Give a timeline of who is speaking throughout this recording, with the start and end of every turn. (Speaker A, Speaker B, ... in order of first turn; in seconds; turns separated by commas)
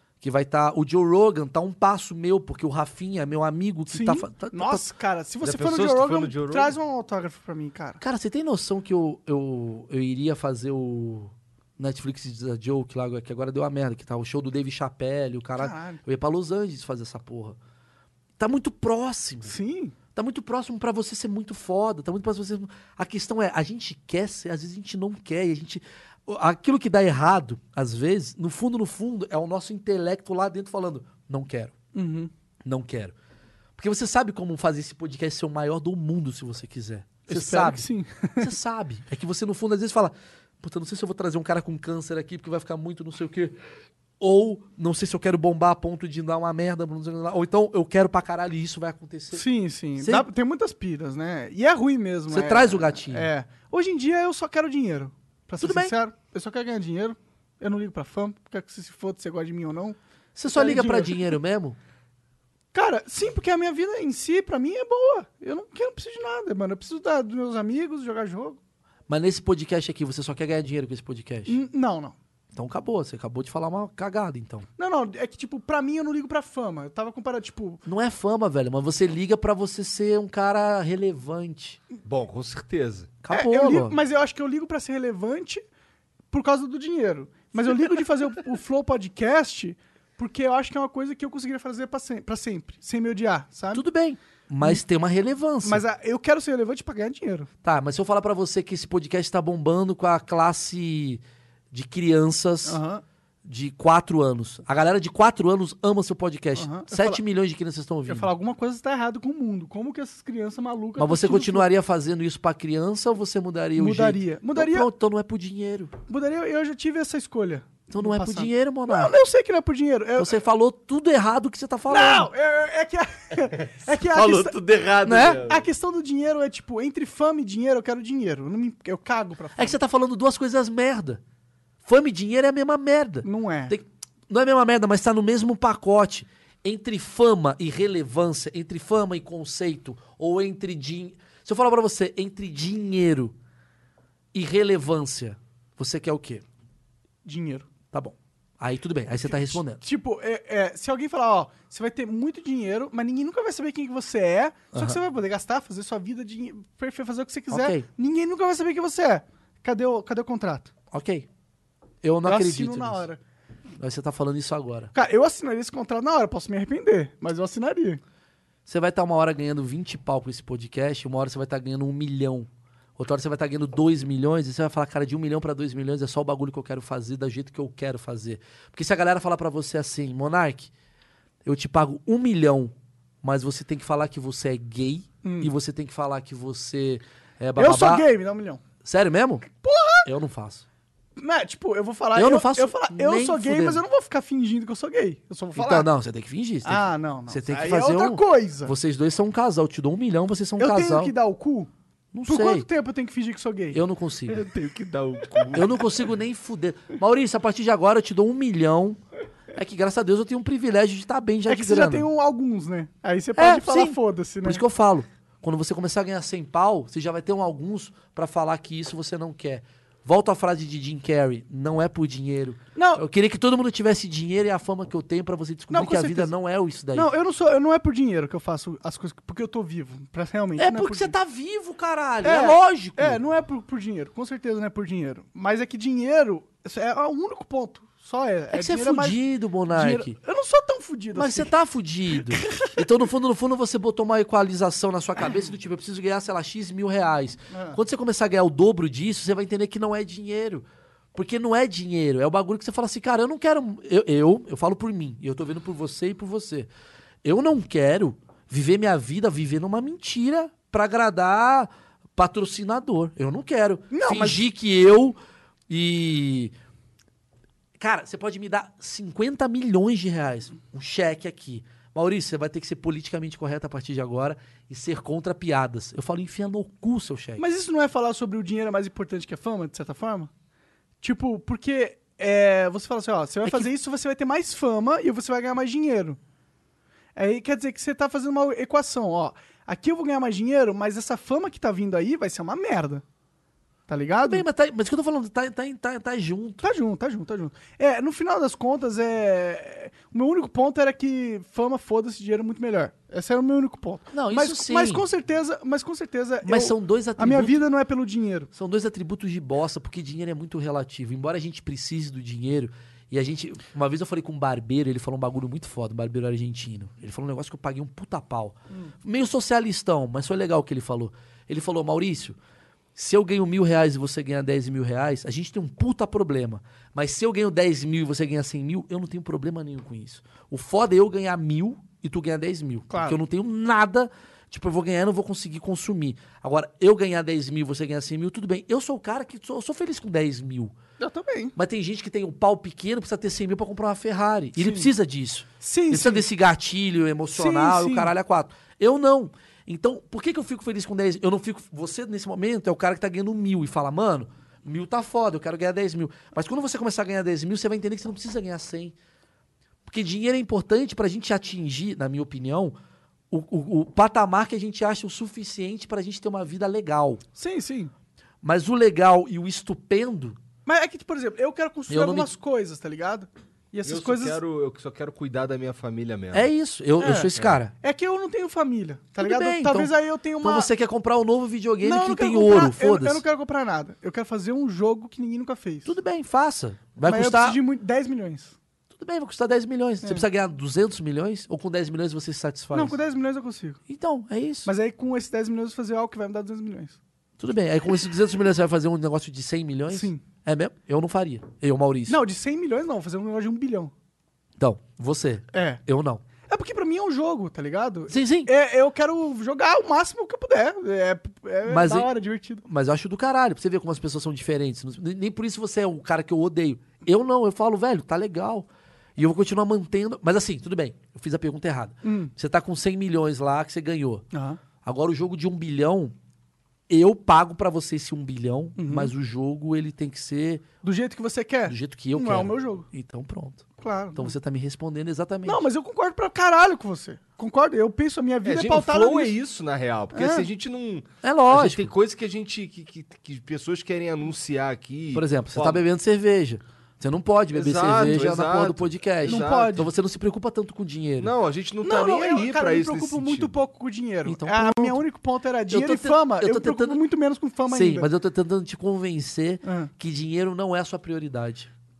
Speaker A: 0.2-4.8, Speaker B: 3.9-8.0, Speaker C: 5.4-6.8, Speaker A: 8.0-17.6, Speaker B: 15.6-16.0, Speaker A: 18.4-19.5, Speaker B: 19.5-19.9, Speaker A: 20.1-31.7, Speaker B: 31.9-32.3, Speaker A: 32.6-33.1, Speaker A: 33.8-37.9, Speaker B: 37.3-38.5, Speaker A: 38.4-43.6, Speaker A: 44.2-49.4, Speaker B: 49.3-60.0, Speaker A: 50.0-50.3, Speaker A: 52.3-53.3, Speaker A: 55.6-55.9, Speaker A: 60.4-61.8, Speaker B: 60.5-61.2, Speaker B: 62.7-68.6, Speaker A: 69.1-71.6, Speaker B: 71.5-72.2, Speaker A: 72.5-74.7, Speaker B: 74.8-77.8, Speaker A: 77.8-81.8, Speaker C: 82.0-83.1, Speaker A: 83.2-84.0, Speaker B: 83.3-85.6, Speaker B: 86.3-93.8, Speaker A: 93.7-95.8, Speaker B: 95.6-97.5, Speaker A: 97.6-101.2, Speaker A: 101.7-102.8, Speaker B: 102.7-103.0, Speaker A: 103.4-108.3, Speaker B: 106.5-107.2, Speaker B: 108.1-111.7, Speaker A: 111.0-115.9, Speaker B: 113.8-114.9, Speaker B: 116.1-120.4, Speaker A: 117.9-119.1, Speaker A: 120.2-122.3, Speaker B: 121.9-124.6, Speaker C: 123.6-125.7, Speaker A: 125.0-125.5, Speaker B: 125.3-129.8, Speaker A: 129.6-131.2, Speaker A: 131.8-143.3, Speaker B: 133.2-133.7, Speaker A: 144.3-146.4, Speaker B: 147.2-147.7, Speaker A: 147.9-149.8, Speaker B: 149.1-160.7, Speaker A: 154.7-155.0, Speaker A: 157.5-157.8, Speaker A: 160.9-161.3, Speaker A: 162.0-163.1, Speaker B: 162.2-163.2, Speaker A: 163.8-164.9, Speaker B: 164.9-168.0, Speaker A: 168.7-180.7, Speaker A: 181.4-182.7, Speaker A: 183.2-188.1, Speaker B: 185.2-185.5, Speaker B: 187.6-188.6, Speaker A: 188.8-189.5, Speaker B: 189.6-190.1, Speaker A: 190.0-190.6, Speaker B: 191.2-195.9, Speaker A: 192.1-193.8, Speaker A: 195.6-201.1, Speaker B: 196.6-198.7, Speaker B: 200.6-201.7, Speaker A: 202.1-202.7, Speaker B: 202.3-203.8, Speaker A: 203.7-204.4, Speaker C: 204.3-205.8, Speaker A: 205.5-209.0, Speaker A: 209.5-212.1, Speaker B: 211.5-214.6, Speaker A: 213.3-227.1, Speaker B: 222.8-223.0, Speaker B: 225.7-226.3, Speaker B: 226.9-231.1, Speaker A: 230.6-233.2, Speaker B: 232.2-239.2, Speaker A: 238.5-240.1, Speaker B: 239.7-241.5, Speaker A: 241.1-256.7, Speaker B: 242.2-242.7, Speaker B: 247.5-247.8, Speaker A: 257.2-265.2, Speaker B: 263.9-264.4, Speaker A: 265.7-266.5, Speaker A: 267.8-277.4, Speaker B: 277.4-280.3, Speaker B: 281.0-286.2, Speaker A: 283.4-283.7, Speaker B: 287.1-293.0, Speaker B: 293.9-294.4, Speaker A: 294.2-296.6, Speaker B: 296.6-308.5, Speaker A: 304.1-305.0, Speaker A: 306.4-307.6, Speaker A: 308.5-322.4, Speaker A: 322.9-340.7, Speaker B: 332.9-333.2, Speaker B: 341.0-341.5, Speaker A: 341.6-358.9, Speaker B: 344.6-344.9, Speaker B: 345.6-346.2, Speaker B: 347.3-348.1, Speaker A: 359.9-362.7, Speaker A: 363.3-367.2, Speaker B: 367.4-367.9, Speaker A: 368.4-370.4, Speaker B: 370.6-374.4, Speaker A: 371.9-372.3, Speaker C: 373.8-376.5, Speaker A: 376.3-377.7, Speaker B: 377.0-380.7, Speaker A: 379.2-383.2, Speaker B: 381.8-385.9, Speaker A: 385.9-387.6, Speaker B: 387.0-388.6, Speaker A: 388.9-393.0, Speaker B: 392.7-393.8, Speaker A: 393.9-394.7, Speaker B: 394.6-397.0, Speaker A: 397.4-402.2, Speaker B: 399.9-400.2, Speaker B: 402.1-403.9, Speaker A: 404.6-406.2, Speaker B: 405.5-405.8, Speaker B: 406.5-412.6, Speaker A: 408.1-408.5, Speaker A: 411.6-412.1, Speaker A: 412.6-424.2, Speaker B: 422.0-422.3, Speaker B: 424.3-424.6, Speaker A: 424.8-426.1, Speaker A: 426.9-430.6, Speaker B: 428.8-429.1, Speaker B: 430.8-432.9, Speaker A: 431.7-435.6, Speaker B: 433.8-434.3, Speaker B: 435.4-439.3, Speaker C: 438.4-445.8, Speaker B: 440.1-440.5, Speaker A: 441.2-441.9, Speaker A: 445.1-451.3, Speaker C: 447.5-449.8, Speaker B: 449.2-449.9, Speaker C: 451.2-453.6, Speaker B: 451.8-458.1, Speaker A: 454.2-455.0, Speaker A: 455.7-457.0, Speaker A: 457.7-461.7, Speaker B: 459.6-459.9